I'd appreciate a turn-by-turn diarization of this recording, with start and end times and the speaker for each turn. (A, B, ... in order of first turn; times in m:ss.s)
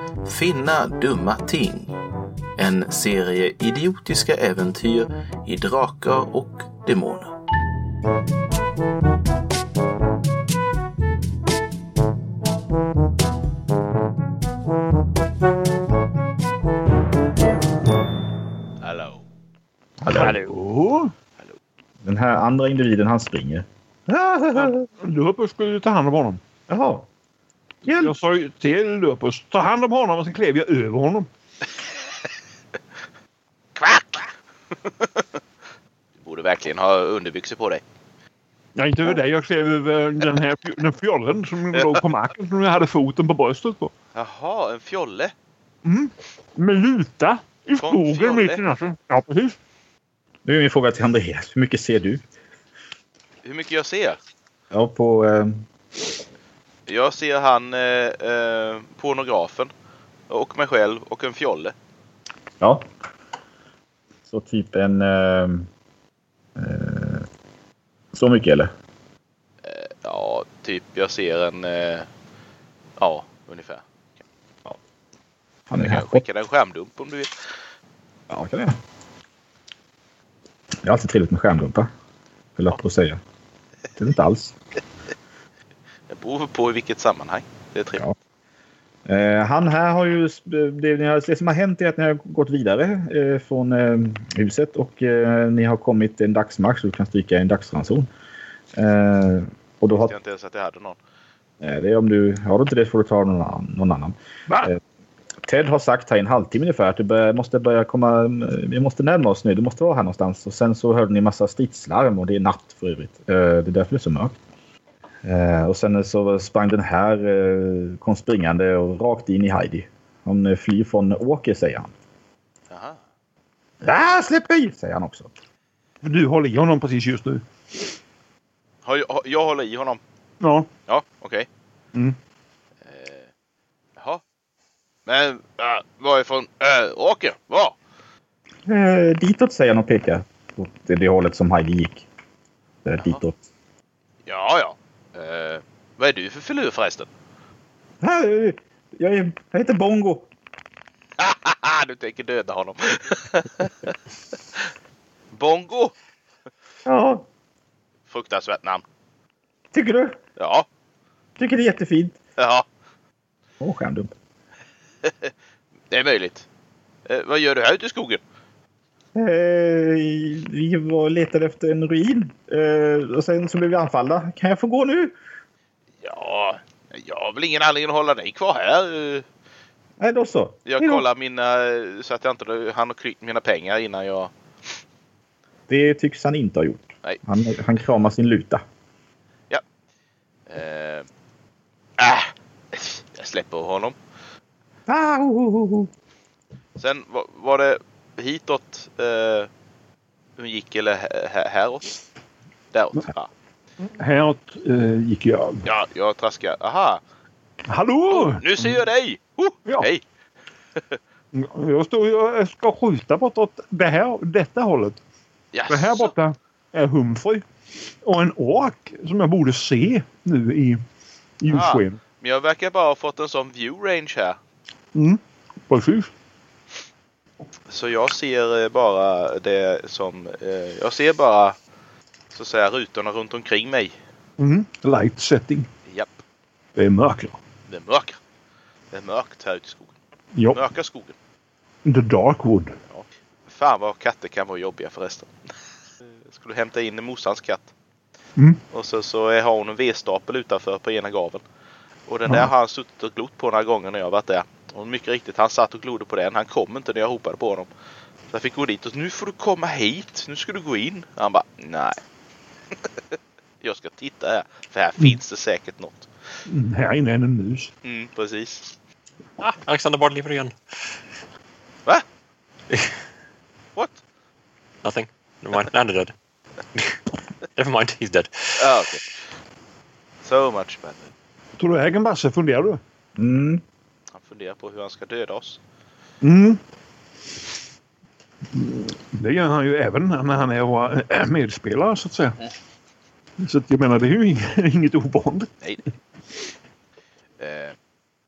0:00.2-0:01.9 A
0:02.6-0:07.3 A
0:18.8-0:19.2 B
0:20.0-0:20.4 C
0:20.1-0:20.5 D
0:20.1-0:21.1 E
0:22.0-0:24.9 C
0:24.6-0:26.4 E
0:26.7-0:27.1 C
0:27.8-0:28.2 C
0:28.0-0:31.3 E
0:33.8-0:34.3 B
0:34.9-0:35.2 B
0:36.2-0:37.8 B
0:38.8-0:43.9 E
0:44.2-0:45.3 B
0:45.8-0:49.6 E
0:47.8-0:48.6 B
0:50.4-0:52.2 C
0:53.4-0:54.2 B
0:54.7-0:55.6 C
0:56.9-0:59.7 B
1:00.3-1:01.7 B
1:02.6-1:02.9 C
1:04.3-1:05.7 C
1:06.6-1:07.2 C
1:08.1-1:08.7 C
1:09.6-1:12.1 B
1:13.0-1:13.8 B
1:15.7-1:16.2 C
1:15.8-1:17.3 B
1:18.3-1:18.8 C
1:20.8-1:21.9 C
1:22.6-1:23.2 C
1:24.0-1:24.5 C
1:26.1-1:28.0 B
1:29.1-1:38.1 C
1:38.7-1:40.1 C
1:39.9-1:41.0 B
1:41.6-1:44.8 C
1:45.4-1:54.4 C
1:55.2-2:01.9 C
2:02.7-2:03.0 B
2:03.8-2:05.3 C
2:06.0-2:07.4 E
2:08.8-2:10.0 B
2:10.4-2:10.7 E
2:10.9-2:11.5 B
2:12.9-2:13.3 B
2:14.0-2:14.2 B
2:15.1-2:17.8 B
2:18.7-2:22.1 C
2:22.8-2:23.4 C
2:24.3-2:27.1 B
2:28.0-2:30.3 C
2:31.2-2:33.9 B
2:35.3-2:35.9 B
2:36.8-2:37.2 C
2:38.1-2:38.8 B
2:39.7-2:40.2 C
2:40.4-2:40.7 B
2:41.4-2:42.2 C
2:42.4-2:42.7 B
2:43.6-2:44.1 C
2:45.0-2:45.3 B
2:45.9-2:46.5 B
2:47.1-2:48.2 B
2:49.2-2:55.2 C
2:56.0-2:59.3 B
3:00.0-3:01.0 C
3:00.7-3:04.3 B
3:05.7-3:08.6 C
3:10.5-3:11.1 B
3:12.0-3:14.0 B
3:14.9-3:15.9 C
3:16.8-3:19.5 B
3:20.4-3:21.9 B
3:22.7-3:23.3 B
3:23.8-3:25.6 E
3:25.6-3:27.0 B
3:27.7-3:28.7 E
3:28.1-3:30.0 B
3:31.3-3:35.0 E
3:35.5-3:36.1 B
3:35.7-3:37.4 E
3:38.0-3:40.8 E
3:41.4-3:42.0 E
3:41.5-3:44.4 B
3:44.9-3:46.1 E
3:47.7-3:51.6 B
3:52.3-3:54.0 B
3:54.4-3:55.7 E
3:55.9-3:56.2 B
3:56.8-3:57.4 E
3:57.7-3:58.2 B
3:58.9-4:00.0 B
4:00.3-4:00.6 E
4:00.5-4:01.2 B
4:01.8-4:02.8 E
4:02.9-4:05.3 B
4:06.2-4:07.7 B
4:08.7-4:11.4 B
4:12.1-4:17.7 B
4:18.3-4:22.0 B
4:23.6-4:26.1 B
4:26.5-4:27.7 E
4:27.8-4:28.8 B
4:29.4-4:30.5 D
4:32.7-4:32.9 D
4:33.8-4:34.0 B
4:34.8-4:36.1 D
4:37.6-4:38.6 D
4:38.6-4:39.1 B
4:40.2-4:41.1 B
4:41.6-4:42.8 E
4:43.2-4:43.6 C
4:44.1-4:45.6 B
4:46.2-4:46.6 E
4:48.5-4:52.4 E
4:53.4-4:55.5 E
4:57.4-4:57.8 B